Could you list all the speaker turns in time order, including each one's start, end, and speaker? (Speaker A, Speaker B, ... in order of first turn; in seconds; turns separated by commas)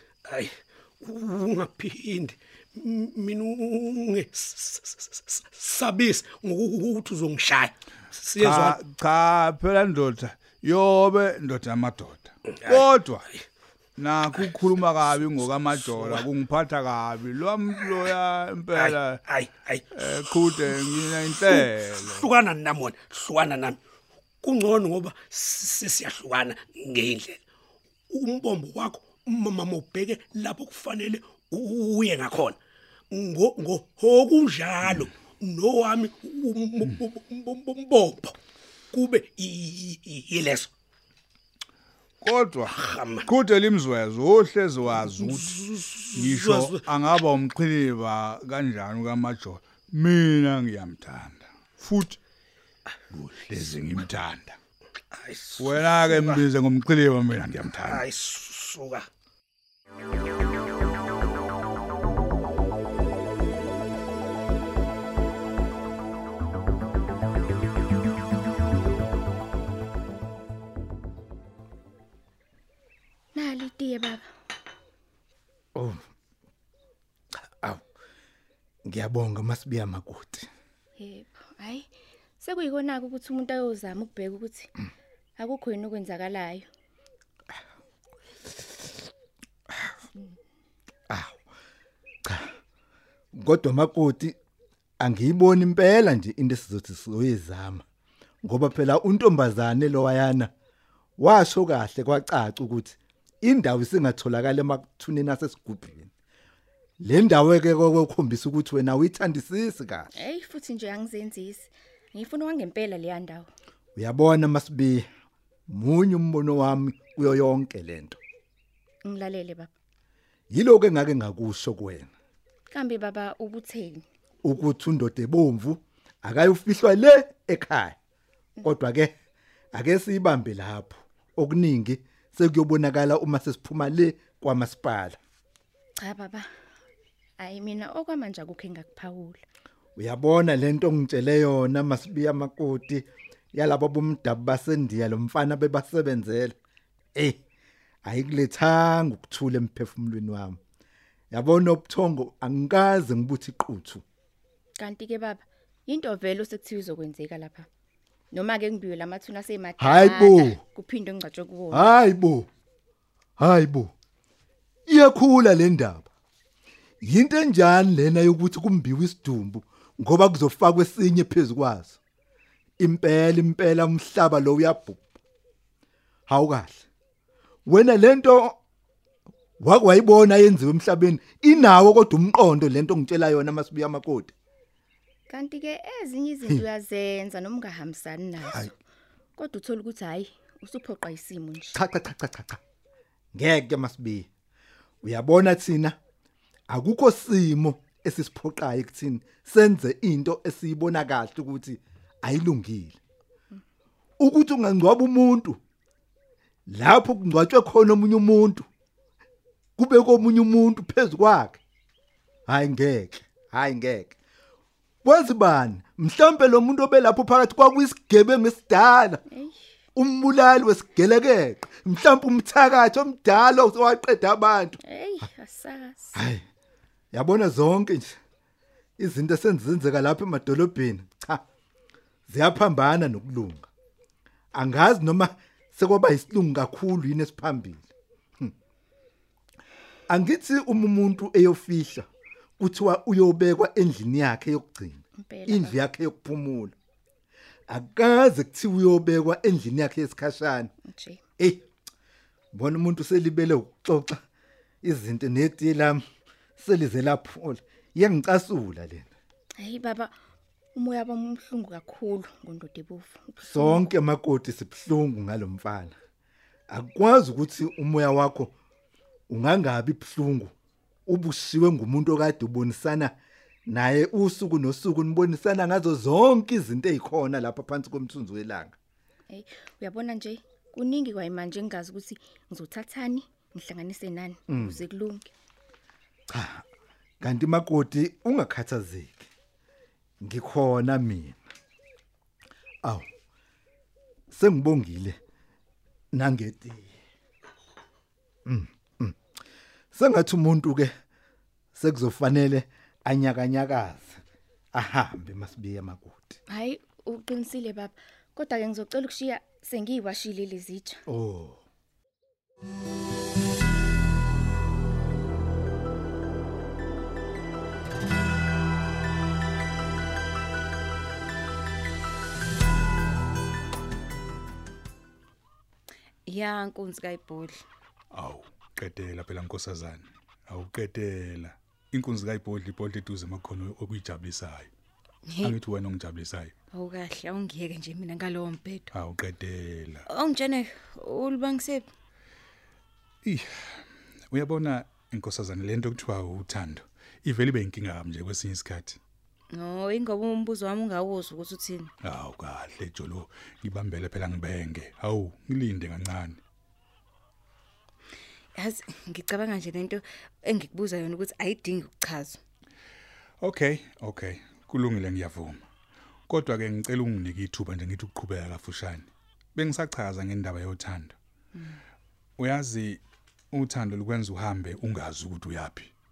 Speaker A: 0.3-8.8, Speaker B: 8.4-13.3, Speaker A: 12.6-12.9, Speaker B: 14.0-19.2, Speaker A: 15.7-16.3, Speaker A: 18.7-23.8, Speaker B: 19.9-22.2, Speaker A: 24.4-27.4, Speaker A: 28.1-32.6, Speaker A: 33.1-38.3, Speaker A: 38.9-40.7, Speaker B: 42.2-45.6, Speaker A: 42.7-43.3, Speaker A: 45.0-46.9, Speaker B: 46.1-52.2, Speaker B: 53.1-54.6, Speaker A: 55.1-56.4, Speaker B: 55.6-58.0, Speaker A: 57.8-59.0, Speaker C: 73.3-74.3, Speaker D: 75.7-76.0, Speaker D: 78.8-80.5, Speaker C: 81.0-84.7, Speaker C: 85.3-86.7, Speaker D: 91.1-91.4, Speaker D: 92.2-92.5, Speaker D: 93.3-94.3, Speaker D: 95.0-97.8, Speaker D: 98.4-100.5, Speaker D: 101.2-106.1, Speaker D: 107.0-110.1, Speaker C: 110.1-113.5, Speaker D: 114.0-115.0, Speaker D: 115.7-118.2, Speaker C: 119.0-119.7, Speaker D: 120.5-122.1, Speaker C: 122.7-124.0, Speaker D: 124.4-128.0, Speaker D: 128.6-129.1, Speaker D: 129.7-135.2, Speaker C: 136.0-136.5, Speaker C: 137.4-139.4, Speaker D: 139.9-146.5, Speaker D: 148.0-150.6, Speaker D: 151.3-154.0, Speaker C: 154.8-157.7, Speaker C: 158.3-161.9, Speaker D: 159.8-160.6, Speaker D: 161.7-162.5, Speaker D: 163.4-163.9, Speaker D: 164.9-166.1, Speaker D: 167.0-172.0, Speaker D: 172.8-175.0, Speaker D: 176.3-176.8, Speaker D: 177.7-178.6, Speaker D: 179.6-184.3, Speaker C: 185.3-188.8, Speaker D: 188.4-188.7, Speaker C: 189.3-191.8, Speaker D: 191.7-192.6, Speaker D: 193.3-194.3, Speaker D: 195.0-195.9, Speaker D: 196.7-203.0, Speaker D: 204.2-205.6, Speaker D: 206.7-208.7, Speaker D: 209.8-211.6, Speaker D: 212.5-214.1, Speaker D: 215.0-219.2, Speaker C: 219.3-219.6, Speaker D: 219.9-224.8, Speaker C: 224.8-226.2, Speaker D: 226.1-226.4, Speaker D: 227.1-228.2, Speaker D: 229.0-231.4, Speaker D: 232.3-233.7, Speaker D: 234.5-237.9, Speaker D: 240.1-242.1, Speaker D: 242.6-246.7, Speaker C: 245.2-245.8, Speaker D: 247.7-250.7, Speaker C: 250.8-251.2, Speaker D: 251.4-251.6, Speaker D: 252.5-254.2, Speaker D: 254.8-256.0, Speaker D: 256.6-259.1, Speaker C: 259.6-260.2, Speaker C: 260.7-263.9, Speaker D: 263.4-265.9, Speaker D: 266.7-268.5, Speaker D: 269.3-270.5, Speaker D: 271.1-273.1, Speaker D: 273.7-278.8, Speaker C: 279.3-285.3, Speaker D: 284.5-284.8, Speaker D: 286.3-286.6, Speaker D: 287.2-289.3, Speaker D: 290.2-291.4, Speaker D: 294.3-295.1, Speaker D: 296.1-296.9, Speaker D: 298.4-299.1, Speaker D: 299.9-300.9, Speaker D: 301.7-304.2, Speaker D: 304.7-306.4, Speaker C: 306.5-311.0, Speaker D: 311.1-311.6, Speaker E: 326.2-327.6, Speaker B: 328.1-334.7, Speaker E: 335.3-335.6, Speaker B: 335.4-336.5, Speaker E: 336.7-338.9, Speaker B: 338.9-340.0, Speaker E: 340.1-341.9, Speaker B: 343.2-349.0, Speaker E: 349.5-351.9, Speaker B: 352.0-356.4, Speaker E: 358.5-362.4, Speaker B: 363.4-365.6, Speaker B: 366.3-371.2, Speaker B: 372.4-375.9